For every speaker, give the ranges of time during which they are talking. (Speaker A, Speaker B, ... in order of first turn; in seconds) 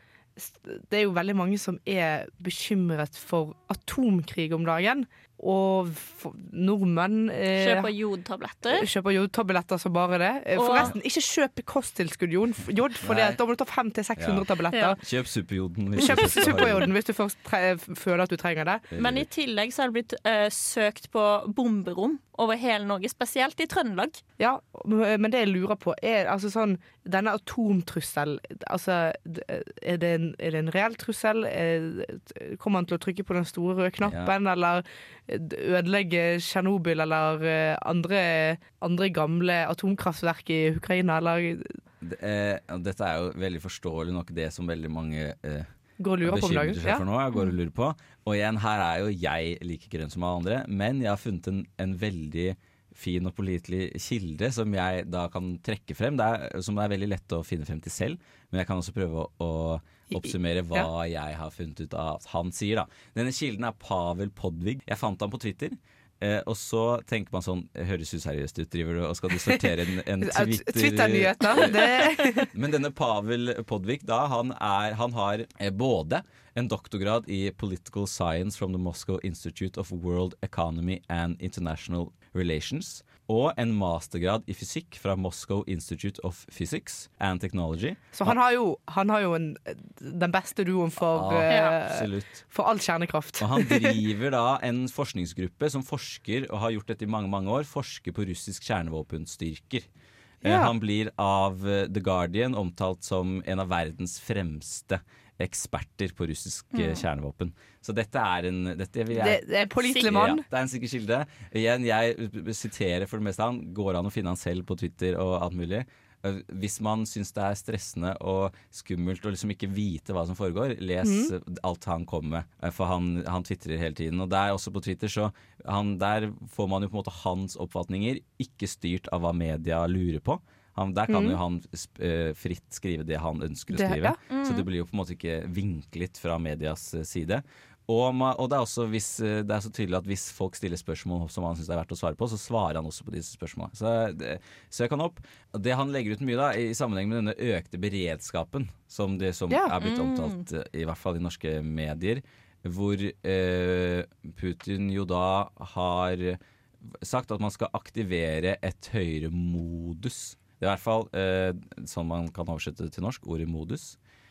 Speaker A: 0.4-7.9, 8.7-15.0, 16.0-18.9, 24.4-41.8, 46.0-47.0, 60.1-60.9, 70.2-72.5, 88.1-94.0, 100.4-100.7, 109.1-110.4, 121.0-121.3, 131.1-131.4, 133.7-134.2, 149.5-149.7
Speaker B: 7.5-8.9, 10.5-10.9, 14.7-15.0, 16.0-16.6, 19.0-24.2, 91.5-91.8, 106.7-107.0, 134.3-134.7, 149.8-150.4
Speaker C: 13.0-13.4, 14.2-16.9, 18.9-19.3, 34.0-34.3, 42.0-45.7, 46.2-88.3, 91.1-92.4, 93.4-99.8, 100.4-156.4, 157.0-164.0